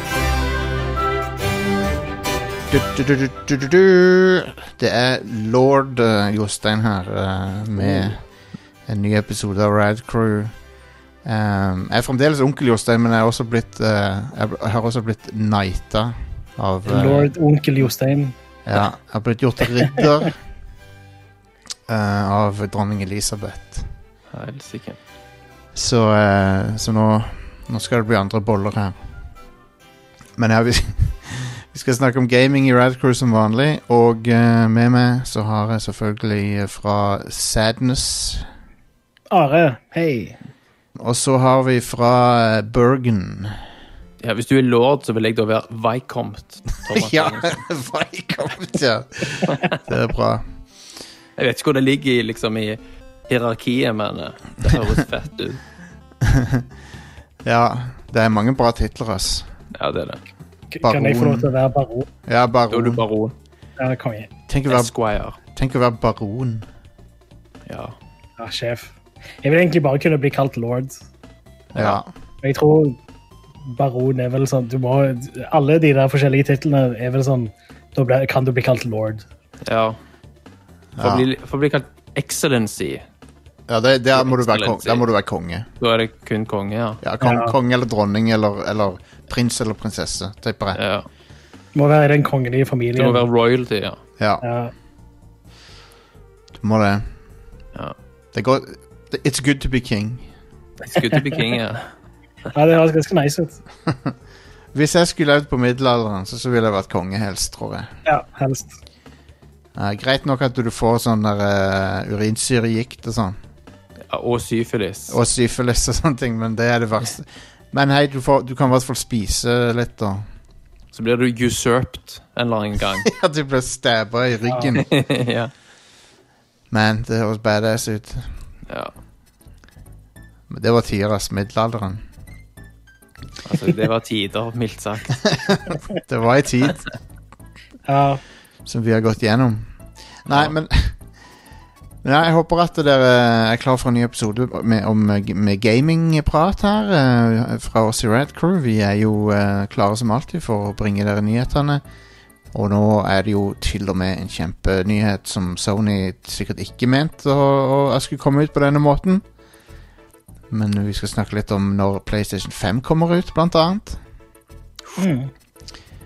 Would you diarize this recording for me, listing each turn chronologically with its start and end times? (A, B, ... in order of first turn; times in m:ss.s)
0:02.7-0:08.2 A
0:08.9-0:10.5 A
0:11.2-0:17.3 A
0:16.9-0:18.3 B
0:18.6-0:20.3 A
0:21.9-0:23.9 A
0:24.3-0:25.0 C
0:25.7-0:29.0 A
0:30.4-0:38.4 A
0:39.3-0:40.4 B
0:41.0-0:43.6 A
0:44.2-0:47.6 C
0:46.9-0:50.4 A
0:51.4-0:55.6 C
0:56.2-0:56.7 A
0:57.4-0:59.5 A
0:59.7-1:00.2 C
1:00.7-1:02.1 B
1:00.8-1:01.5 A
1:02.2-1:03.0 A
1:02.7-1:03.3 C
1:03.8-1:04.3 B
1:04.5-1:04.9 A
1:04.7-1:05.4 C
1:05.5-1:06.7 A
1:07.7-1:07.9 C
1:08.4-1:11.0 B
1:11.7-1:12.1 A
1:12.4-1:13.0 B
1:13.6-1:19.2 B
1:19.6-1:20.0 C
1:21.0-1:21.3 A
1:21.0-1:23.0 C
1:23.7-1:25.7 A
1:24.1-1:25.0 C
1:25.8-1:27.0 C
1:27.0-1:30.8 A
1:27.2-1:27.5 B
1:30.7-1:31.0 C
1:31.7-1:33.2 B
1:33.0-1:34.0 C
1:34.4-1:34.7 B
1:36.5-1:37.1 A
1:38.3-1:40.2 A
1:40.8-1:41.9 C
1:42.5-1:43.6 B
1:43.9-1:44.1 A
1:44.7-1:47.9 A
1:48.0-1:48.7 B
1:49.8-1:53.4 A
1:54.1-1:55.2 C
1:55.1-2:00.2 A
2:00.9-2:03.1 C
2:03.1-2:04.9 A
2:04.8-2:05.5 C
2:06.7-2:08.3 A
2:10.5-2:12.0 A
2:13.4-2:15.4 C
2:15.3-2:16.8 A
2:17.9-2:18.2 B
2:18.6-2:19.7 A
2:20.2-2:21.0 A
2:20.3-2:20.5 C
2:22.0-2:31.8 A
2:32.5-2:39.2 A
2:40.5-2:44.0 A
2:45.0-2:45.3 B